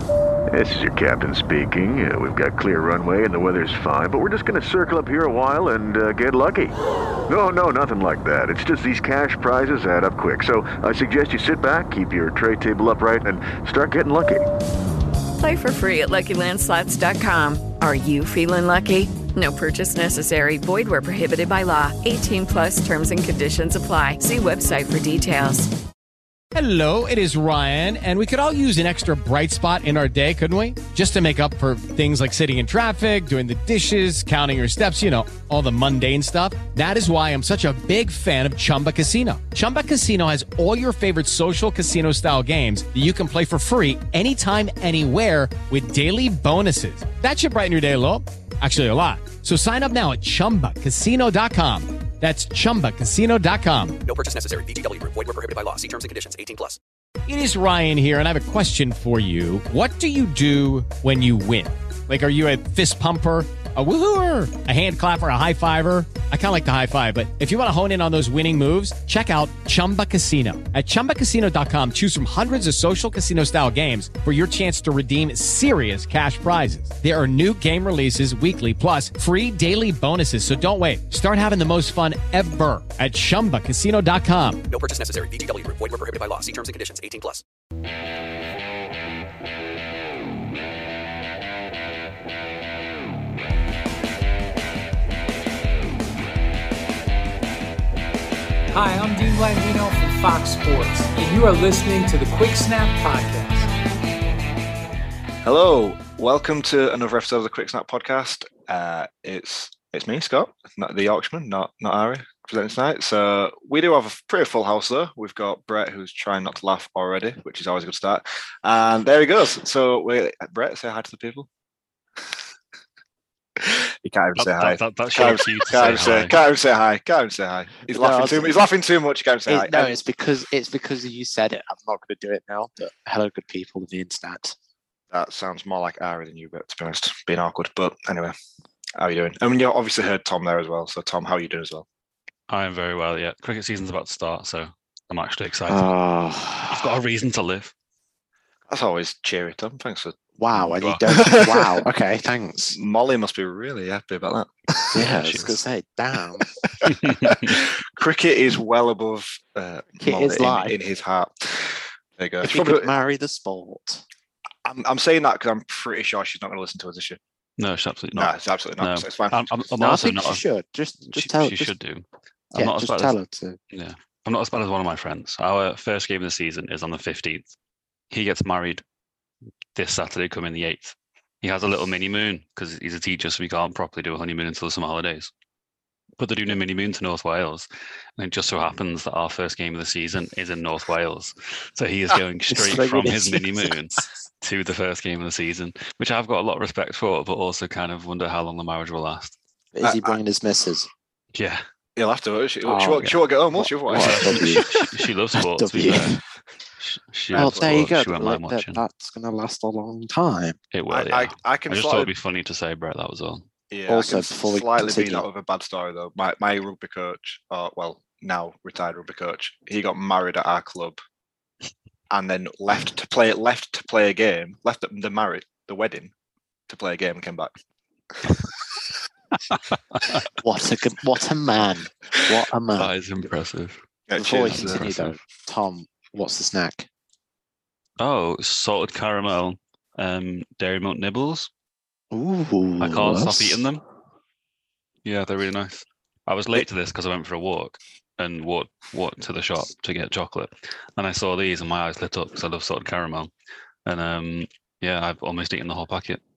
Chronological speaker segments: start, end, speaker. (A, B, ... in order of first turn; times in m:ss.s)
0:00.5-0:06.8 A
0:07.3-0:14.4 A
0:15.4-0:25.7 B
0:26.5-0:54.0 C
0:54.0-0:56.8 D
0:57.3-1:24.6 C
1:24.7-1:27.4 D
1:38.7-1:43.7 E
1:45.4-2:01.5 F
2:03.6-2:10.0 F
2:04.4-2:06.4 G
2:07.9-2:08.6 H
2:09.5-2:14.6 H
2:15.1-2:18.4 F
2:19.0-2:21.8 F
2:22.5-2:25.9 G
2:25.7-2:26.8 H
2:26.7-2:27.7 G
2:28.7-2:30.2 F
2:30.4-2:32.8 H
2:30.5-2:31.0 G
2:31.1-2:31.8 F
2:32.7-2:35.2 F
2:34.9-2:36.5 H
2:35.0-2:35.6 G
2:36.7-2:42.9 F
2:37.0-2:37.5 G
2:40.0-2:40.8 H
2:42.4-2:44.0 H
2:44.6-2:47.2 F
2:47.6-2:50.4 G
2:48.1-2:49.4 F
2:49.8-2:51.7 H
2:51.1-2:53.2 G
2:52.5-2:53.6 H
2:53.7-2:57.5 G
2:58.1-2:58.8 G
2:59.8-3:05.3 G
3:06.2-3:19.4 G
3:12.5-3:13.8 H
3:19.7-3:20.9 H
3:19.8-3:20.2 F
3:21.4-3:21.6 G
3:22.0-3:24.7 F
3:22.6-3:24.8 H
3:24.0-3:26.2 G
3:25.6-3:26.2 H
3:26.8-3:28.8 G
3:27.3-3:30.6 H
3:30.7-3:33.5 G
3:30.9-3:32.1 F
3:33.7-3:41.0 F
3:33.9-3:35.2 H
3:42.1-3:46.1 F
3:46.7-3:47.5 F
3:50.4-3:52.9 H
3:52.8-3:53.8 G
3:54.1-3:54.8 F
3:54.2-3:56.9 H
3:54.4-3:55.2 G
3:58.0-4:01.5 G
4:02.1-4:03.6 H
4:02.8-4:03.8 G
4:05.0-4:13.3 G
4:13.9-4:16.2 G